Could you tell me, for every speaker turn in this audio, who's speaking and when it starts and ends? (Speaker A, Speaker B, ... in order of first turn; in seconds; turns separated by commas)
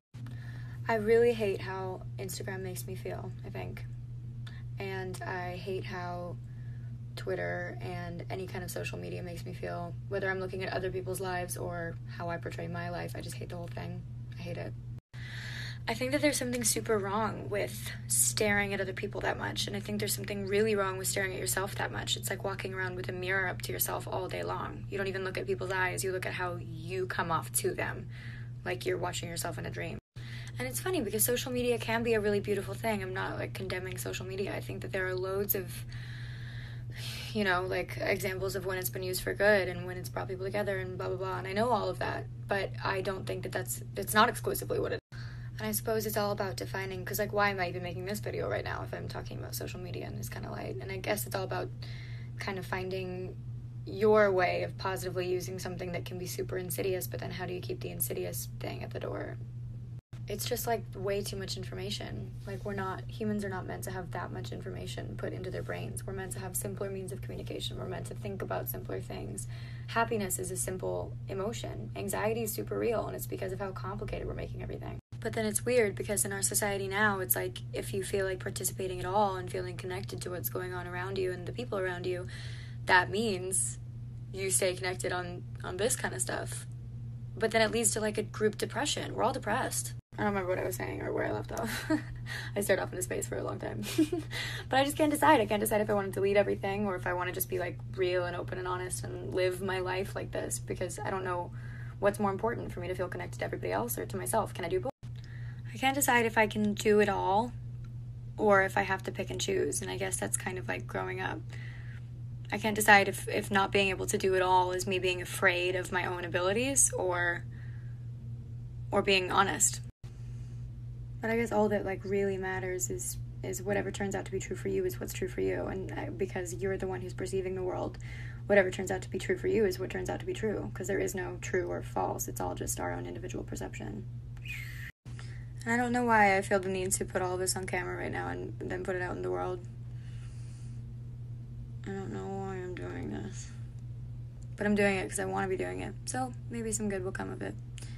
Speaker A: 0.9-3.9, Speaker A: 4.8-6.4, Speaker A: 7.2-14.7, Speaker A: 15.9-28.1, Speaker A: 28.6-30.0, Speaker A: 30.6-35.9, Speaker A: 37.0-45.0, Speaker A: 45.6-51.7, Speaker A: 52.4-59.4, Speaker A: 60.3-82.3, Speaker A: 82.8-83.8, Speaker A: 84.3-86.7, Speaker A: 87.3-104.9, Speaker A: 105.7-107.5, Speaker A: 108.4-111.4, Speaker A: 112.5-117.5, Speaker A: 118.9-119.8, Speaker A: 121.2-134.1, Speaker A: 135.6-139.6, Speaker A: 141.8-143.5, Speaker A: 144.6-147.6